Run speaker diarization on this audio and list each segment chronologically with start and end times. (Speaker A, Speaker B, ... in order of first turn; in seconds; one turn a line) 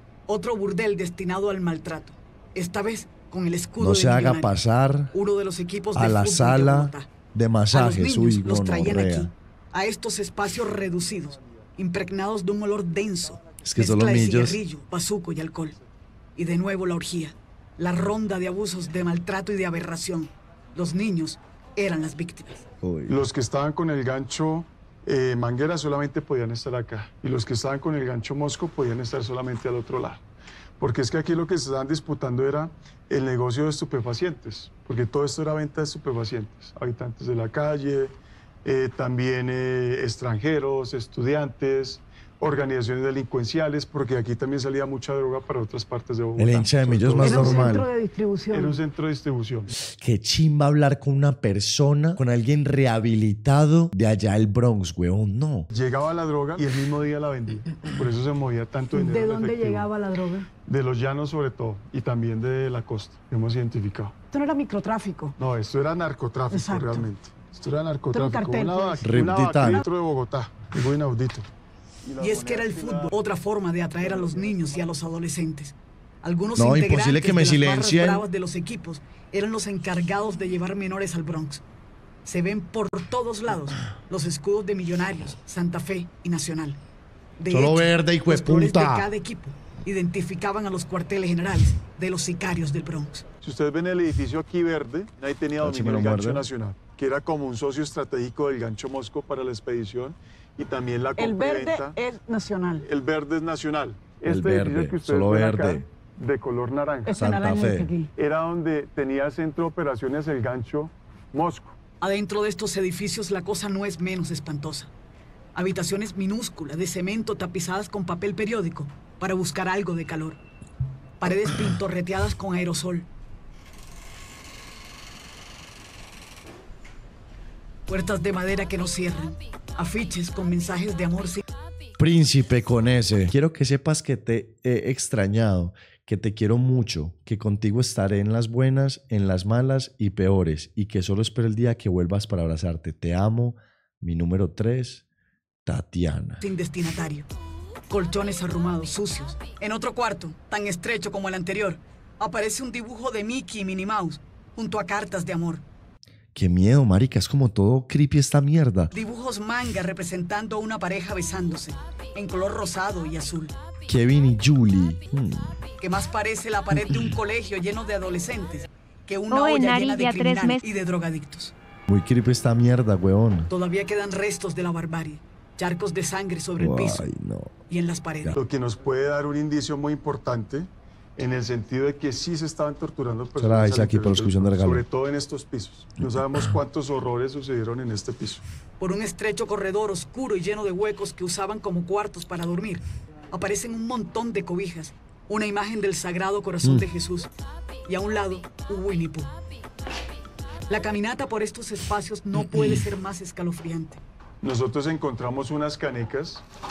Speaker A: 0.3-4.5
Speaker B: 3.8-5.1
Speaker A: 5.1-7.1
Speaker B: 5.9-9.3
Speaker A: 7.7-15.8
Speaker B: 13.6-14.6
Speaker A: 16.4-22.6
Speaker B: 22.8-23.2
Speaker C: 23.1-30.2
Speaker C: 30.8-47.8
Speaker B: 46.4-47.9
Speaker A: 47.2-48.8
Speaker C: 48.5-49.7
Speaker B: 49.8-55.7
Speaker C: 55.7-59.9
Speaker A: 58.9-60.5
Speaker C: 60.6-64.1
Speaker A: 64.3-65.3
Speaker C: 65.4-71.5
Speaker A: 66.5-67.0
Speaker A: 68.1-69.8
Speaker B: 69.0-69.8
Speaker C: 72.0-73.1
Speaker A: 72.2-81.6
Speaker C: 74.0-74.8
Speaker B: 76.6-78.2
Speaker A: 82.2-86.8
Speaker A: 87.4-93.2
Speaker B: 87.5-89.1
Speaker C: 93.4-102.0
Speaker B: 95.6-96.4
Speaker A: 101.2-102.8
Speaker C: 102.8-107.2
Speaker B: 104.3-105.8
Speaker A: 107.0-108.1
Speaker B: 107.2-107.9
Speaker C: 108.2-111.7
Speaker A: 112.0-114.9
Speaker A: 115.5-120.4
Speaker A: 121.2-123.1
Speaker A: 127.9-131.4
Speaker B: 132.0-145.0
Speaker B: 145.7-146.4
Speaker A: 146.4-147.2
Speaker A: 147.9-155.6
Speaker B: 156.3-158.9
Speaker A: 158.9-163.6
Speaker B: 163.8-165.5
Speaker A: 165.8-171.5
Speaker B: 171.9-173.5
Speaker A: 173.5-177.0
Speaker B: 176.6-177.5
Speaker A: 177.7-178.3
Speaker C: 178.3-188.4
Speaker B: 183.4-184.8
Speaker A: 188.8-197.3
Speaker A: 197.8-199.3
Speaker A: 200.7-204.0
Speaker C: 204.4-206.4